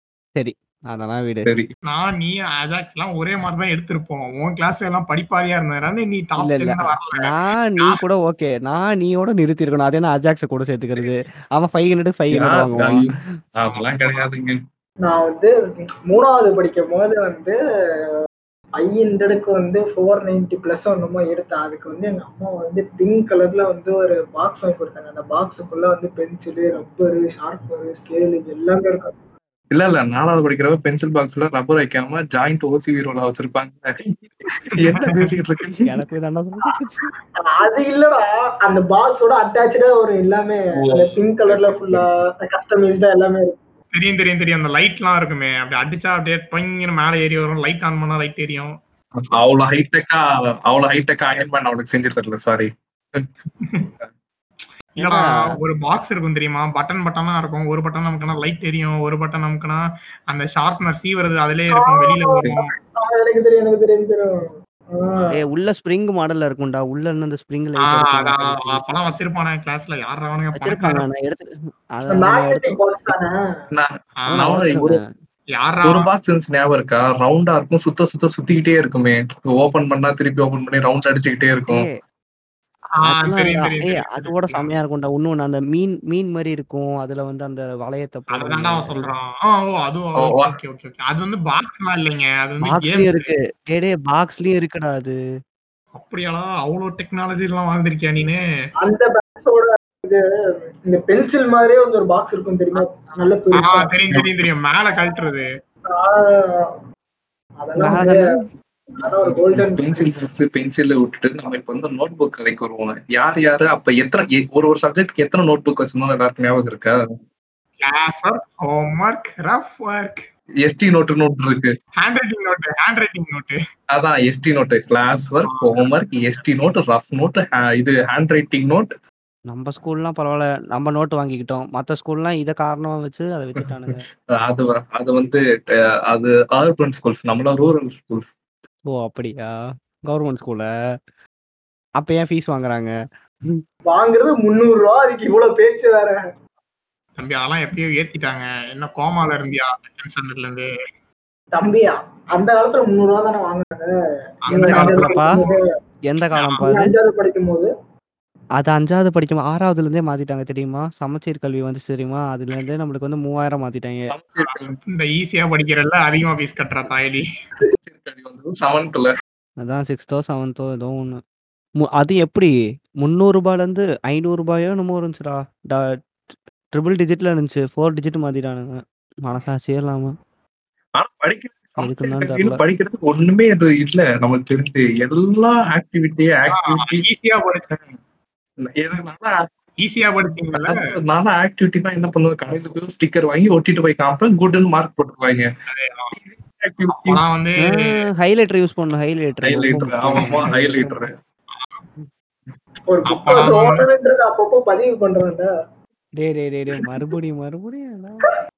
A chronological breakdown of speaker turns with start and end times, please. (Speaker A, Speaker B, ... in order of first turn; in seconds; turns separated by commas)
Speaker A: 0.3-1.5, Speaker B: 1.9-8.0, Speaker A: 6.4-13.1, Speaker C: 12.3-14.6, Speaker B: 13.7-14.3, Speaker D: 15.0-15.5, Speaker D: 16.1-17.5, Speaker D: 18.8-29.1, Speaker C: 29.7-35.9, Speaker B: 34.7-35.2, Speaker A: 35.9-37.1, Speaker D: 37.4-43.6, Speaker C: 40.8-42.0, Speaker B: 43.9-48.7, Speaker C: 49.2-53.3, Speaker B: 55.0-62.7, Speaker A: 55.0-55.5, Speaker D: 61.8-65.3, Speaker A: 65.3-69.1, Speaker B: 67.9-71.0, Speaker A: 70.5-72.8, Speaker D: 72.1-73.4, Speaker C: 73.7-75.0, Speaker A: 74.3-75.0, Speaker B: 75.6-76.1, Speaker C: 75.8-81.8, Speaker A: 81.7-81.9, Speaker B: 83.0-84.7, Speaker A: 83.0-89.0, Speaker B: 88.3-93.3, Speaker C: 90.2-90.5, Speaker A: 92.6-95.1, Speaker B: 96.0-98.4, Speaker D: 98.8-100.2, Speaker D: 100.9-103.9, Speaker B: 103.6-105.5, Speaker C: 104.1-104.4, Speaker D: 105.9-106.7, Speaker D: 107.6-108.2, Speaker A: 107.8-108.4, Speaker D: 109.0-110.3, Speaker C: 109.2-117.0, Speaker B: 117.8-120.3, Speaker C: 120.6-121.7, Speaker B: 122.0-123.6, Speaker C: 123.9-128.9, Speaker B: 125.5-125.9, Speaker A: 129.5-134.0, Speaker C: 134.3-135.4, Speaker C: 136.1-138.3, Speaker A: 138.9-139.5, Speaker A: 140.1-140.6, Speaker A: 142.0-142.9, Speaker D: 143.9-146.2, Speaker B: 147.2-150.7, Speaker D: 151.5-153.9, Speaker B: 154.4-155.6, Speaker D: 154.5-155.6, Speaker A: 154.5-155.3, Speaker A: 156.1-156.9, Speaker B: 156.4-156.6, Speaker D: 156.6-157.7, Speaker A: 158.6-164.1, Speaker C: 164.1-164.8, Speaker B: 164.4-167.2, Speaker C: 167.8-169.1, Speaker A: 169.6-171.2, Speaker A: 171.8-172.5, Speaker A: 173.0-176.0, Speaker A: 176.7-180.1, Speaker C: 180.9-187.0, Speaker A: 181.8-182.6, Speaker B: 186.5-187.7, Speaker C: 187.7-188.0, Speaker C: 188.6-189.5, Speaker B: 189.8-190.8, Speaker C: 190.5-195.4, Speaker B: 195.7-196.2, Speaker C: 196.2-197.2, Speaker B: 196.9-197.9, Speaker A: 197.6-201.0, Speaker C: 199.4-201.1, Speaker B: 201.5-201.8, Speaker D: 202.9-205.5, Speaker B: 203.1-203.9, Speaker A: 206.2-208.3